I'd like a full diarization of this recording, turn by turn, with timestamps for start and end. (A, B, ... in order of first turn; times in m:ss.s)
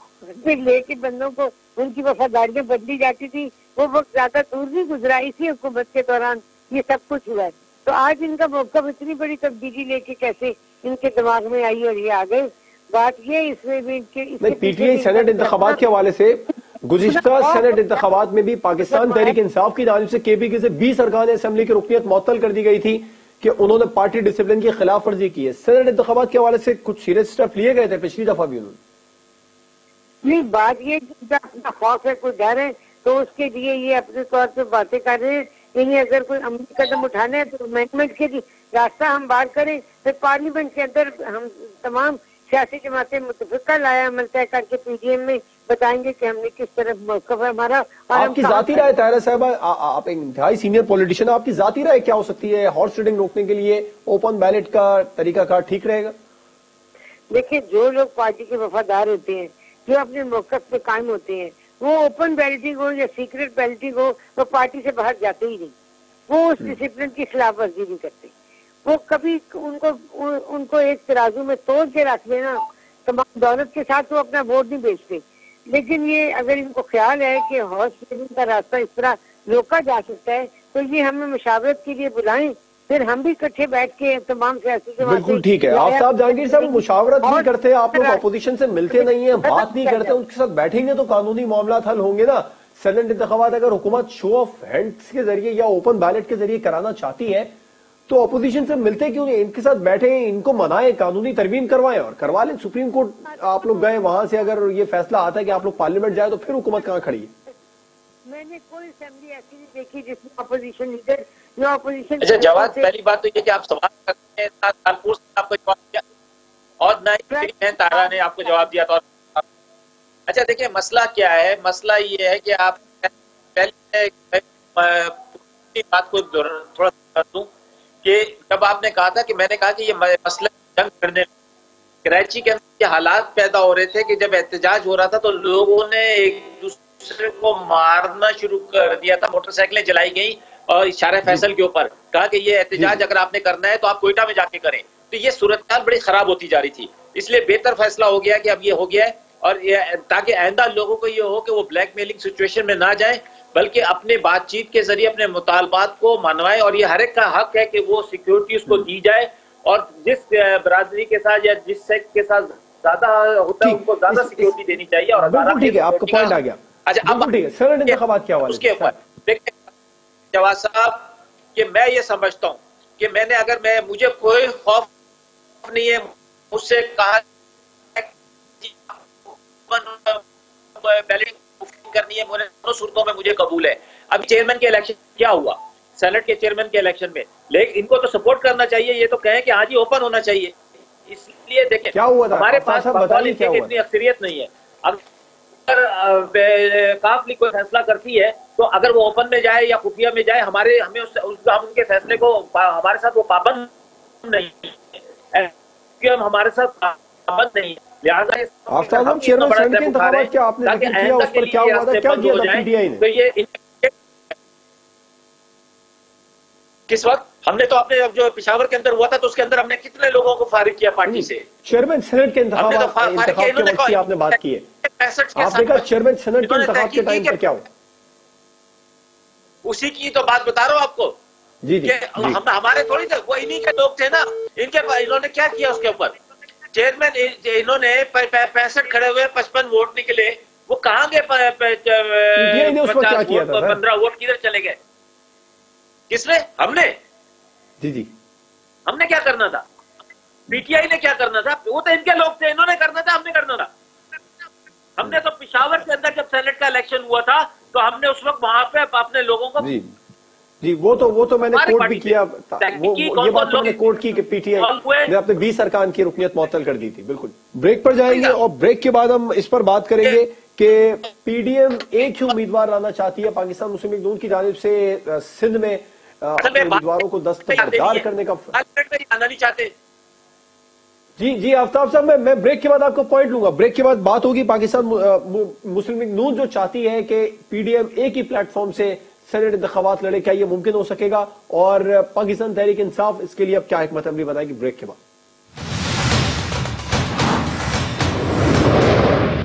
0:00.2-0:15.8 A
0:14.4-0:28.8 B
0:17.1-0:17.8 A
0:18.9-0:19.4 A
0:30.2-0:48.9 A
0:48.1-0:56.2 B
0:57.3-1:05.8 A
1:06.3-1:08.3 A
1:08.8-1:28.2 A
1:25.0-1:37.5 B
1:28.9-1:30.2 A
1:38.1-1:47.3 B
1:48.3-1:52.9 A
1:52.2-1:56.0 C
1:56.8-1:59.4 C
1:57.3-1:58.7 A
2:00.3-2:07.5 C
2:08.0-2:11.3 C
2:12.0-2:47.3 C
2:22.8-2:23.0 B
2:43.6-2:44.6 B
2:45.2-2:49.0 B
2:47.9-2:49.6 C
2:50.3-2:54.9 C
2:55.6-2:57.2 C
2:58.6-3:00.2 C
3:00.8-3:10.6 C
3:11.1-3:15.0 C
3:11.9-3:13.7 B
3:15.7-3:23.7 C
3:24.2-3:24.8 C
3:25.3-3:33.9 C
3:28.7-3:33.0 B
3:36.9-3:41.4 C
3:41.1-3:44.7 B
3:42.6-3:45.8 C
3:45.4-3:47.6 B
3:46.4-3:47.4 C
3:49.6-3:51.2 C
3:51.6-3:52.4 B
3:51.8-3:56.2 C
3:56.7-4:04.8 C
4:02.4-4:03.8 B
4:06.1-4:07.0 C
4:07.8-4:08.1 B
4:08.9-4:09.6 C
4:10.5-4:13.7 C
4:14.4-4:19.8 C
4:19.6-4:19.9 B
4:20.6-4:38.6 B
4:21.5-4:24.0 C
4:24.6-4:25.1 C
4:28.1-4:28.4 C
4:36.4-4:36.9 C
4:37.5-4:39.7 C
4:41.2-4:55.0 B